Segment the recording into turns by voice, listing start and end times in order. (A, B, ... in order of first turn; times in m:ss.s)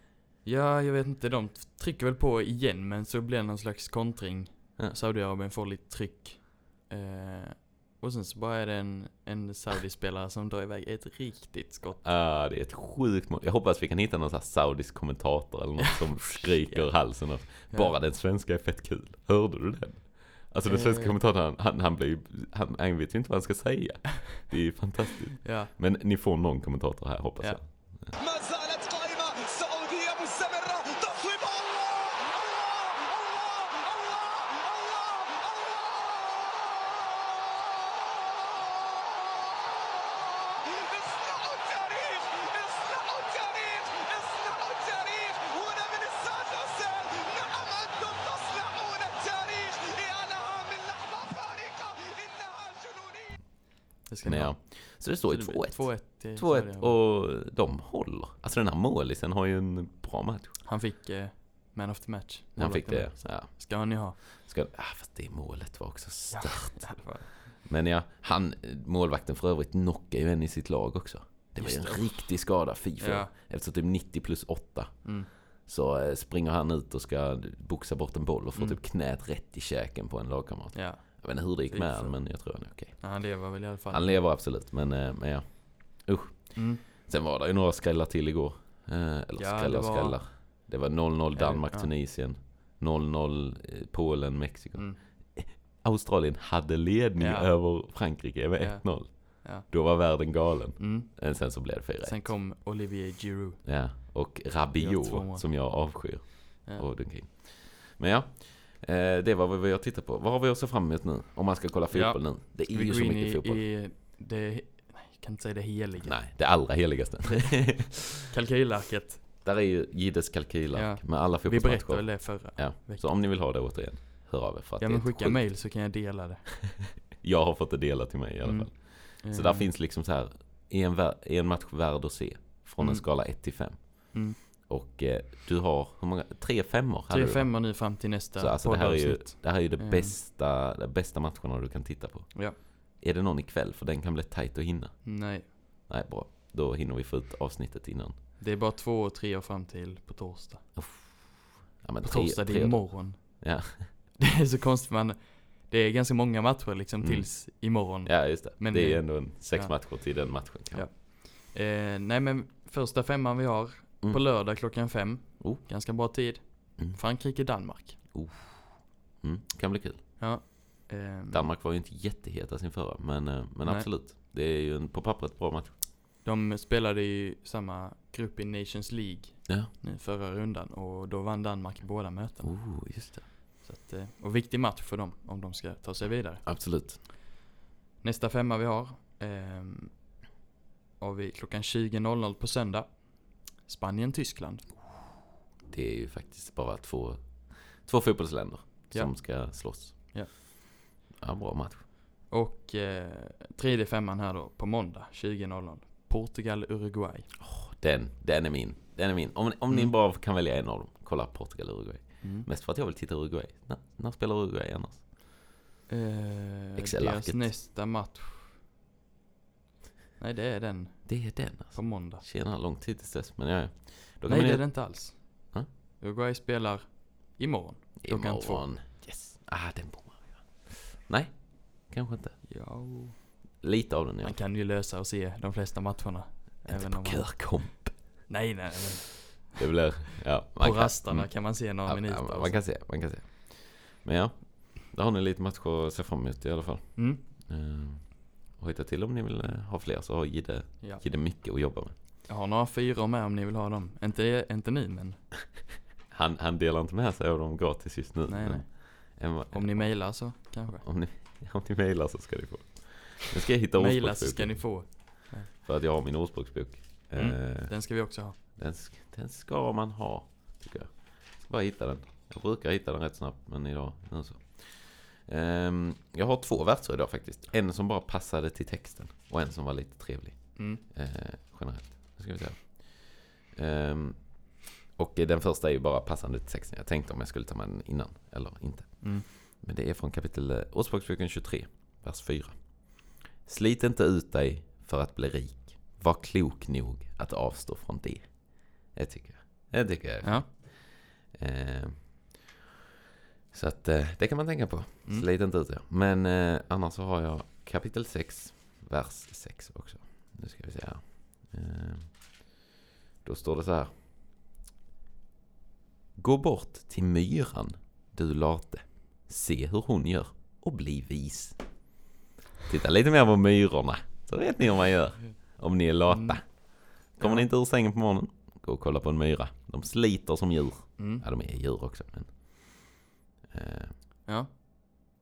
0:00.4-0:12.0 A
0:12.0-0:28.2 B
0:16.2-0:18.0 A
0:20.6-0:21.2 A
0:25.4-0:25.7 A
0:28.2-0:37.2 C
0:38.0-0:53.4 C
0:54.1-0:54.6 A
0:54.2-1:00.6 B
0:55.1-0:57.0 A
1:00.6-1:04.2 A
1:02.6-1:03.6 B
1:04.2-1:15.1 B
1:06.3-1:07.3 A
1:11.6-1:12.3 A
1:13.0-1:13.3 A
1:15.0-1:15.3 A
1:15.6-1:23.0 B
1:20.7-1:22.2 A
1:23.0-1:24.2 A
1:23.9-1:42.3 B
1:26.6-1:26.8 A
1:29.4-1:30.2 A
1:31.4-1:31.9 A
1:37.2-1:37.6 A
1:38.6-1:39.7 A
1:40.8-1:41.4 A
1:42.0-1:43.6 A
1:43.6-1:53.6 B
1:44.8-1:45.5 A
1:51.9-1:56.2 A
1:56.0-1:58.3 B
1:57.3-1:59.2 A
1:59.4-2:05.4 B
2:00.7-2:03.0 A
2:04.8-2:06.5 A
2:06.7-2:17.5 B
2:08.4-2:09.7 A
2:12.8-2:13.0 A
2:14.1-2:14.4 A
2:17.1-2:20.2 A
2:18.4-2:25.1 B
2:25.0-2:25.5 A
2:25.9-2:28.2 B
2:28.4-2:30.7 A
2:30.8-2:33.9 B
2:32.0-2:33.5 A
2:34.2-2:39.8 A
2:37.0-2:37.3 B
2:38.0-2:40.9 B
2:40.7-2:48.0 A
2:48.1-2:50.0 B
2:50.2-2:51.5 A
2:51.3-2:55.8 B
2:56.2-3:02.6 A
2:59.5-2:59.7 B
3:02.4-3:03.3 B
3:03.6-3:06.4 A
3:06.4-3:07.0 B
3:08.0-3:10.0 A
3:11.0-3:14.7 A
3:15.7-3:20.4 B
3:18.9-3:20.3 A
3:21.2-3:21.8 B
3:22.3-3:27.3 A
3:27.4-3:35.0 B
3:32.2-3:32.5 A
3:35.9-3:38.5 A
3:36.8-3:37.5 B
3:40.2-3:42.2 A
3:41.1-3:44.7 B
3:44.3-3:45.2 A
3:46.0-3:48.6 A
3:48.0-3:52.4 B
3:52.5-3:53.2 A
3:53.6-3:54.4 B
3:54.2-3:57.6 A
3:56.7-3:58.2 B
3:58.3-3:59.6 A
3:59.5-4:12.0 B
4:00.6-4:02.6 A
4:07.0-4:07.2 A
4:12.3-4:15.2 A
4:16.1-4:20.0 B
4:18.3-4:20.8 A
4:20.7-4:27.8 B
4:23.8-4:25.5 A
4:27.2-4:28.4 A
4:28.6-5:02.4 B
4:40.6-4:40.8 A
4:49.0-4:49.3 A
5:00.2-5:00.5 A
5:03.5-5:12.5 B
5:13.2-5:14.0 B
5:16.2-5:21.6 B
5:22.7-5:32.8 B
5:26.1-5:26.4 A
5:27.2-5:27.5 A
5:31.0-5:31.2 A
5:33.5-5:34.0 B
5:34.3-5:35.1 A